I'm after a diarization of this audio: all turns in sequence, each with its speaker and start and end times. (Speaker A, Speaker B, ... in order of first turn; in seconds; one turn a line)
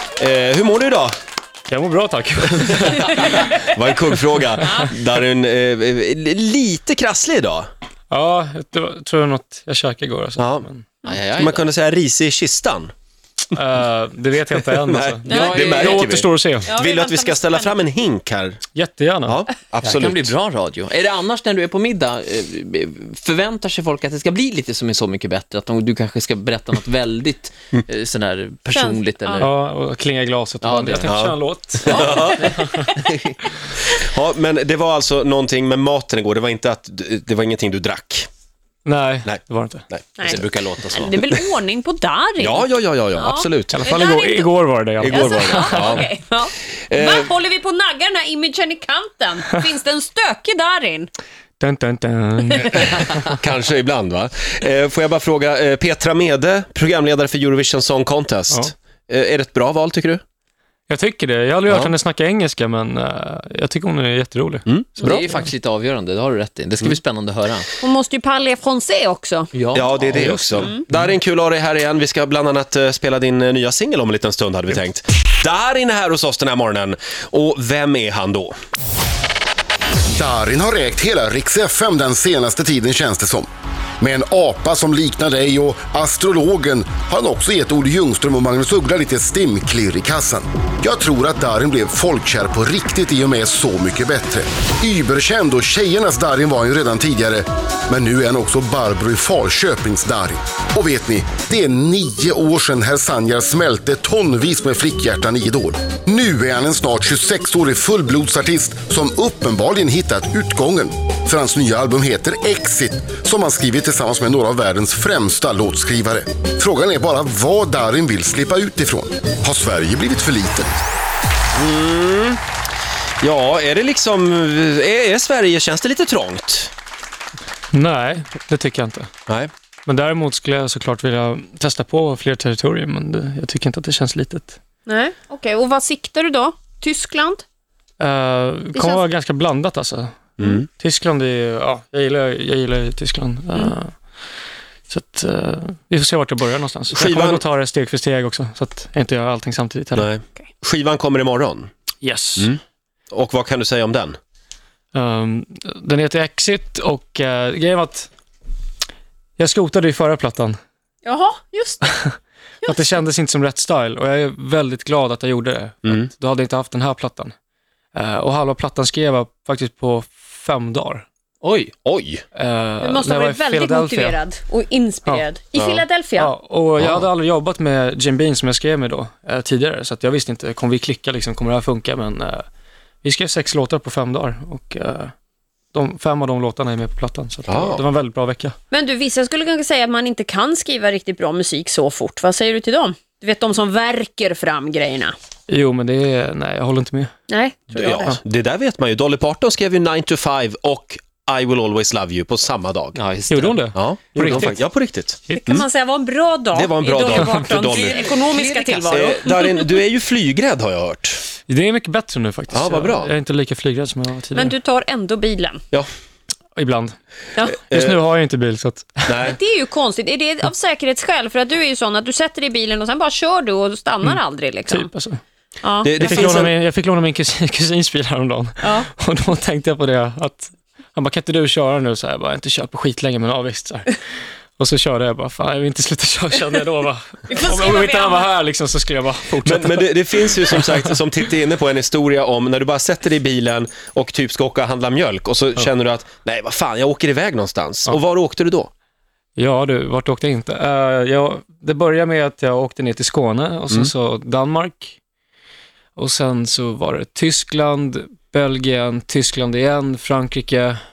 Speaker A: 0.2-1.1
Speaker B: 1.7-3.2
Speaker A: 2.9-7.7
Speaker B: 4.6-4.8
Speaker B: 8.1-10.9
Speaker A: 10.4-10.7
Speaker C: 11.1-11.7
Speaker A: 11.3-12.9
Speaker B: 13.5-16.7
Speaker A: 14.8-18.6
Speaker D: 15.3-15.7
Speaker C: 15.3-16.1
Speaker D: 16.7-17.8
Speaker B: 18.8-19.4
Speaker A: 19.3-20.3
Speaker C: 19.8-29.5
Speaker D: 28.7-29.4
Speaker B: 29.4-32.9
Speaker C: 30.6-31.2
Speaker A: 31.0-32.6
Speaker C: 32.2-33.4
Speaker A: 33.7-38.3
Speaker B: 38.9-39.8
Speaker A: 39.2-41.5
Speaker D: 40.2-44.6
Speaker A: 42.4-43.8
Speaker B: 43.7-46.0
Speaker A: 45.0-46.1
Speaker D: 45.1-51.1
Speaker A: 46.9-47.3
Speaker B: 51.6-53.2
Speaker A: 53.0-60.2
Speaker B: 60.9-64.7
Speaker A: 61.7-61.9
Speaker A: 64.7-65.0
Speaker C: 65.0-67.8
Speaker D: 67.8-69.5
Speaker C: 69.5-70.7
Speaker A: 69.7-78.5
Speaker B: 70.6-71.0
Speaker E: 80.1-83.5
Speaker E: 84.0-120.7
Speaker A: 121.5-122.4
Speaker A: 123.2-126.7
Speaker B: 127.7-129.1
Speaker B: 129.9-134.6
Speaker D: 134.9-137.4
Speaker B: 138.0-143.9
Speaker D: 138.7-139.0
Speaker A: 140.4-140.7
Speaker B: 144.9-150.1
Speaker A: 146.9-147.4
Speaker A: 150.0-151.7
Speaker B: 152.0-152.5
Speaker A: 153.1-154.2
Speaker B: 154.9-158.1
Speaker B: 159.4-160.6
Speaker D: 161.1-161.9
Speaker D: 162.6-163.0
Speaker B: 162.7-167.3
Speaker B: 167.9-171.1
Speaker C: 171.4-171.7
Speaker A: 171.8-172.2
Speaker B: 172.4-174.2
Speaker D: 172.8-176.3
Speaker A: 175.6-175.8
Speaker B: 176.2-182.4
Speaker A: 176.8-177.1
Speaker B: 183.0-185.1
Speaker B: 185.7-188.6
Speaker A: 187.5-187.8
Speaker D: 188.7-195.2
Speaker B: 195.5-197.1
Speaker D: 197.3-198.2
Speaker A: 197.7-203.0
Speaker C: 202.9-203.6
Speaker B: 203.3-204.6
Speaker A: 203.7-205.7
Speaker D: 205.3-209.7
Speaker A: 206.5-208.2
Speaker B: 207.1-207.4
Speaker C: 207.7-209.1
Speaker A: 208.9-211.2
Speaker B: 211.5-214.6
Speaker A: 212.5-213.1
Speaker D: 214.3-215.6
Speaker B: 216.6-217.0
Speaker D: 217.3-217.6
Speaker B: 217.6-219.3
Speaker A: 217.7-218.0
Speaker A: 219.1-219.4
Speaker D: 219.3-224.9
Speaker B: 224.7-225.2
Speaker D: 225.6-226.3
Speaker A: 225.8-226.6
Speaker B: 226.0-234.0
Speaker D: 228.6-228.9
Speaker B: 234.6-240.0
Speaker D: 237.3-238.3
Speaker A: 239.4-248.7
Speaker B: 240.7-240.9
Speaker B: 249.4-255.0
Speaker B: 256.0-260.8